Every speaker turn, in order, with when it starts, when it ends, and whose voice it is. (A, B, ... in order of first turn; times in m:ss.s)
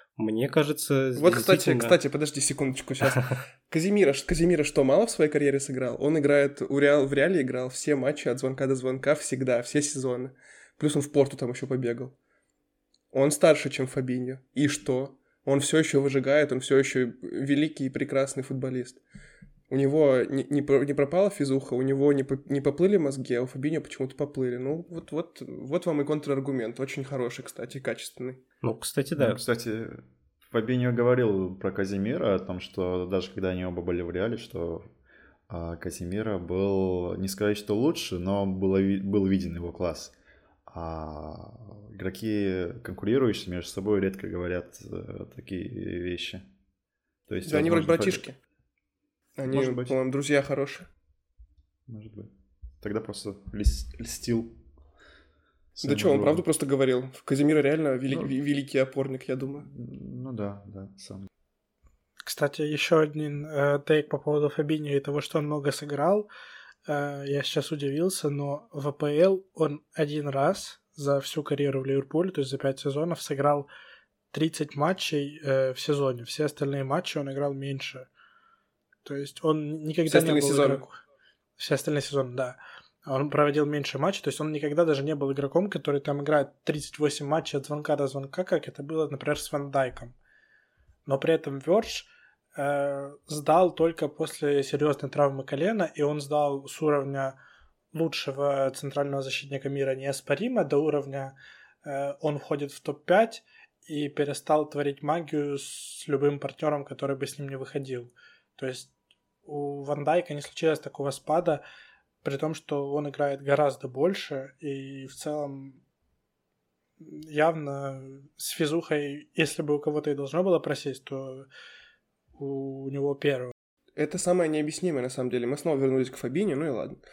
0:00.2-0:02.0 A
0:01.2-0:12.2 B
0:13.1-0:19.0 B
0:19.7-0:28.4 B
0:28.6-0:29.4 A
0:29.2-0:34.9 C
0:35.5-0:40.2 C
0:40.7-0:46.5 C
0:47.3-0:48.2 C
0:47.4-0:48.4 B
0:49.4-0:50.9 B
0:49.5-0:50.0 C
0:51.9-0:54.6 C
0:55.8-0:56.4 C
0:55.8-0:59.7 B
0:59.7-1:01.3 C
1:02.3-1:06.3 D
1:06.9-1:13.7 D
1:14.3-1:18.1 D
1:19.0-1:21.0 D
1:20.1-1:20.8 B
1:21.6-1:30.2 D
1:31.1-1:37.4 D
1:37.9-1:48.9 D
1:49.5-1:51.6 D
1:52.2-1:55.8 D
1:57.0-2:01.5 D
2:02.4-2:03.5 D
2:04.0-2:07.0 B